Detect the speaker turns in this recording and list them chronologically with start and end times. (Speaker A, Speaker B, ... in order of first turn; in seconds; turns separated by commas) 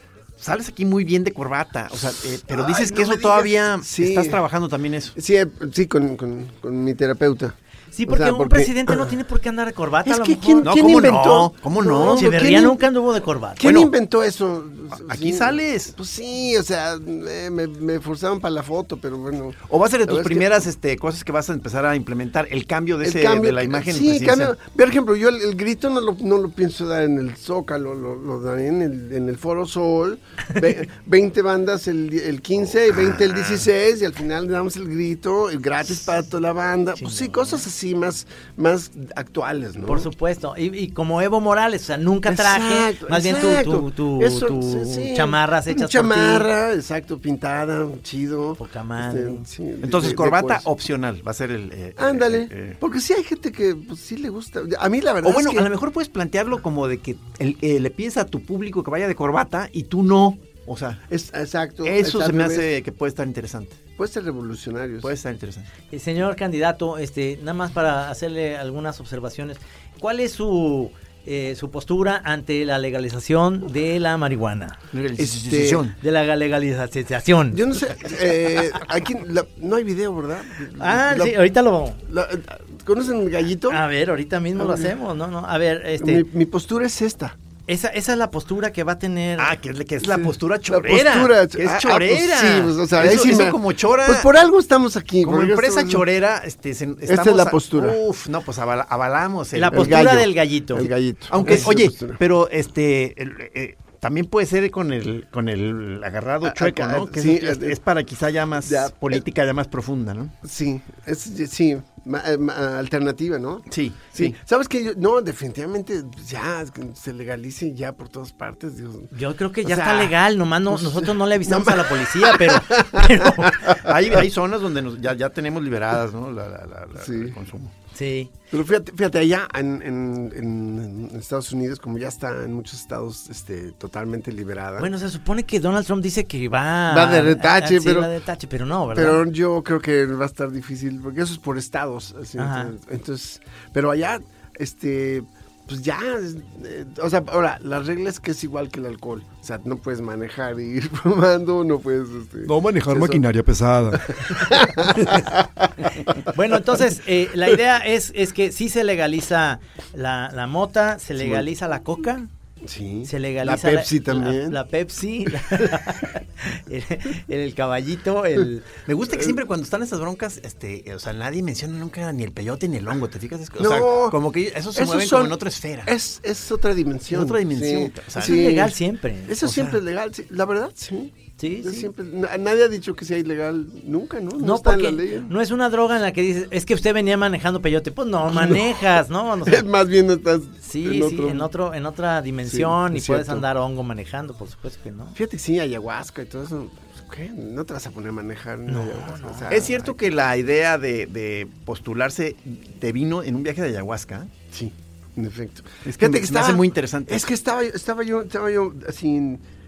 Speaker A: 0.4-5.1, Speaker B: 2.5-4.4, Speaker B: 5.2-9.1, Speaker C: 7.9-10.8, Speaker B: 10.0-12.8, Speaker A: 10.6-12.8, Speaker C: 12.0-13.6, Speaker B: 13.6-20.5, Speaker A: 13.6-13.9, Speaker A: 14.9-15.9, Speaker A: 19.7-24.5, Speaker B: 23.0-40.1, Speaker A: 32.9-33.6, Speaker C: 37.0-37.6, Speaker C: 39.9-46.5, Speaker B: 42.2-50.7, Speaker C: 48.6-49.4, Speaker A: 49.8-52.8, Speaker B: 52.0-55.7, Speaker A: 55.2-61.0, Speaker B: 61.1-62.6, Speaker A: 61.8-63.8, Speaker B: 64.0-65.1, Speaker A: 65.0-65.7, Speaker C: 65.9-74.8, Speaker A: 74.9-76.0, Speaker B: 75.2-75.9, Speaker C: 76.0-77.7, Speaker B: 77.5-81.4, Speaker C: 80.8-82.0, Speaker B: 82.0-83.8, Speaker C: 83.7-86.2, Speaker B: 84.6-84.9, Speaker B: 86.0-87.3, Speaker C: 87.7-89.5, Speaker A: 89.4-94.3, Speaker B: 90.0-96.0, Speaker A: 95.2-100.0, Speaker B: 97.1-98.0, Speaker C: 99.5-100.9, Speaker B: 99.7-102.2, Speaker A: 100.8-110.3, Speaker B: 106.4-107.8, Speaker B: 108.6-109.2, Speaker B: 110.4-119.1, Speaker A: 113.7-114.3, Speaker C: 119.1-123.8, Speaker B: 119.6-120.1, Speaker B: 120.7-124.1, Speaker A: 123.8-127.7, Speaker B: 127.0-127.4, Speaker C: 127.9-128.3, Speaker B: 128.5-134.9, Speaker C: 134.8-139.2, Speaker B: 136.9-138.1, Speaker B: 138.9-153.2, Speaker C: 142.4-142.7, Speaker A: 152.4-154.2, Speaker B: 153.9-156.1, Speaker C: 156.2-162.3, Speaker B: 161.2-161.4, Speaker B: 162.6-164.6, Speaker C: 163.1-168.7, Speaker A: 168.8-175.9, Speaker B: 173.6-174.2, Speaker B: 174.7-178.7, Speaker A: 177.1-178.4, Speaker C: 178.2-179.8, Speaker B: 179.2-185.3, Speaker C: 181.4-181.9, Speaker C: 184.4-189.7, Speaker B: 188.3-188.8, Speaker B: 189.4-191.5, Speaker C: 190.6-195.2, Speaker B: 192.5-193.4, Speaker B: 195.1-199.9, Speaker C: 198.7-199.6, Speaker A: 199.5-204.3, Speaker B: 204.5-209.4, Speaker A: 205.8-207.3